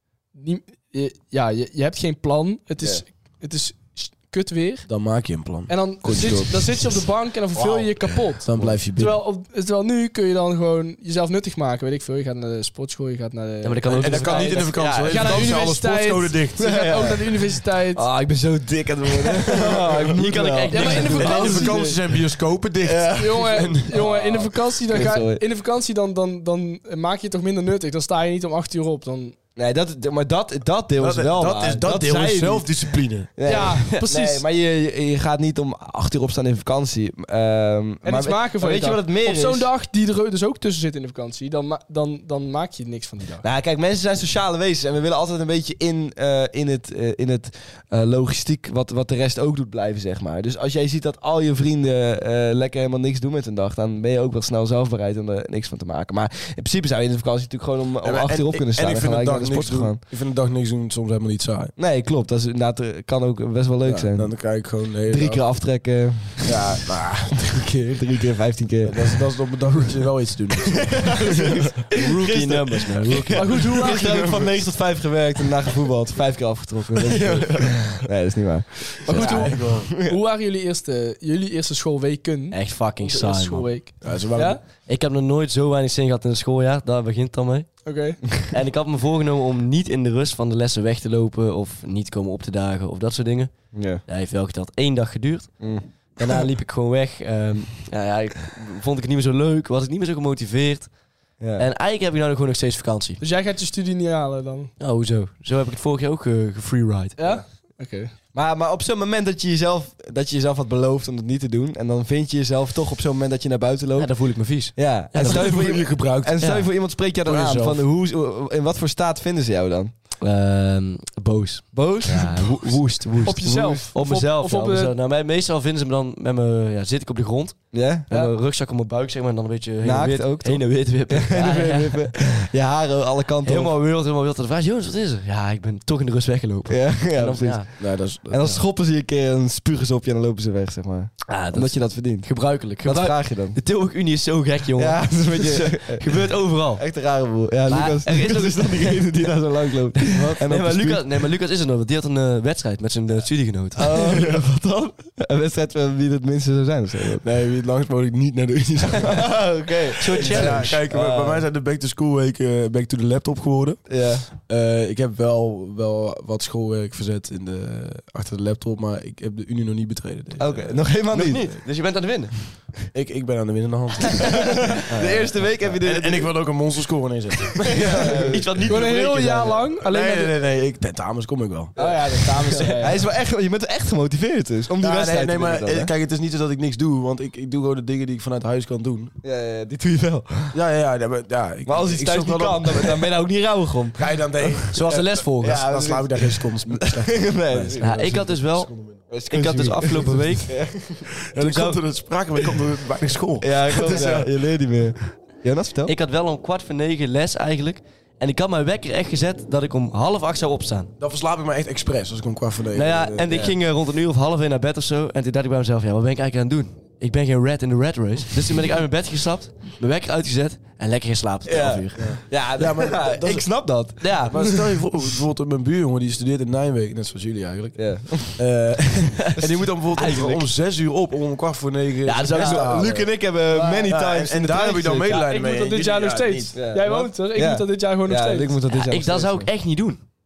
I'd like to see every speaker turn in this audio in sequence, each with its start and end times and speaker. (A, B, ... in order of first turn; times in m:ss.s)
0:00.3-0:04.9 A
0:04.9-0:06.9 B
0:05.7-0:18.1 A
0:07.6-0:09.2 B
0:13.6-0:14.9 C
0:13.9-0:16.7 B
0:14.7-0:15.6 D
0:16.6-0:21.9 D
0:19.6-0:19.9 B
0:19.8-0:22.0 C
0:20.7-0:21.9 A
0:20.8-0:24.0 B
0:22.8-0:25.4 D
0:23.2-0:29.4 A
0:29.6-0:39.7 D
0:31.0-0:33.3 B
0:33.4-0:34.4 A
0:38.0-0:43.4 A
0:43.4-1:00.0 D
0:58.0-1:01.7 B
1:01.8-1:04.4 D
1:03.9-1:05.4 B
1:05.1-1:06.8 D
1:06.4-1:07.9 B
1:07.5-1:09.3 D
1:08.8-1:11.8 B
1:10.6-1:20.2 D
1:11.9-1:13.6 C
1:13.3-1:14.3 A
1:13.8-1:14.6 B
1:16.9-1:18.0 B
1:19.0-1:24.6 A
1:19.1-1:19.9 B
1:22.5-1:23.7 C
1:24.0-1:24.6 B
1:24.7-1:40.9 C
1:27.8-1:28.2 A
1:33.7-1:34.0 D
1:35.6-1:35.9 D
1:41.4-1:41.7 D
1:41.6-1:43.2 C
1:43.2-1:44.7 A
1:44.8-1:47.3 C
1:47.2-1:48.1 A
1:48.3-1:59.9 D
1:54.0-1:55.7 C
1:55.2-1:56.4 B
1:56.4-1:56.7 C
1:57.2-1:57.8 B
2:00.2-2:12.2 C
2:01.7-2:02.8 D
2:03.2-2:04.9 A
2:03.4-2:03.8 D
2:07.7-2:08.3 D
2:09.8-2:13.7 D
2:13.4-2:17.7 C
2:16.6-2:23.6 D
2:17.8-2:18.6 B
2:21.3-2:26.8 C
2:24.8-2:31.0 D
2:27.7-2:29.3 C
2:30.0-2:34.2 C
2:33.8-2:37.2 D
2:37.2-2:39.3 B
2:39.0-2:41.4 D
2:40.0-2:40.8 C
2:40.1-2:43.8 B
2:43.9-2:44.2 D
2:44.4-2:50.9 B
2:50.4-2:51.5 D
2:51.1-2:52.6 C
2:52.9-2:58.4 B
2:54.1-2:56.3 D
2:54.9-2:55.3 C
2:57.6-2:58.5 D
2:58.0-2:59.7 C
2:58.7-3:00.3 A
2:59.8-3:02.7 B
3:01.8-3:03.0 A
3:02.7-3:05.9 D
3:04.8-3:09.1 B
3:09.2-3:10.6 D
3:10.5-3:13.0 B
3:11.6-3:18.3 D
3:14.0-3:19.0 B
3:14.7-3:15.6 C
3:17.8-3:18.7 C
3:19.1-3:21.1 D
3:19.3-3:20.5 C
3:21.3-3:24.3 B
3:21.4-3:21.8 C
3:23.4-3:25.9 D
3:25.8-3:30.9 C
3:31.0-3:33.3 B
3:32.7-3:42.1 C
3:33.3-3:33.5 D
3:41.4-3:44.8 D
3:42.0-3:43.7 B
3:44.0-3:44.6 C
3:44.3-3:53.1 B
3:47.7-3:48.4 D
3:49.2-3:50.5 C
3:52.0-3:53.0 C
3:52.3-3:55.3 D
3:53.5-3:53.9 A
3:53.9-3:56.6 B
3:55.1-3:58.6 A
3:56.5-3:59.5 D
3:58.7-4:00.0 C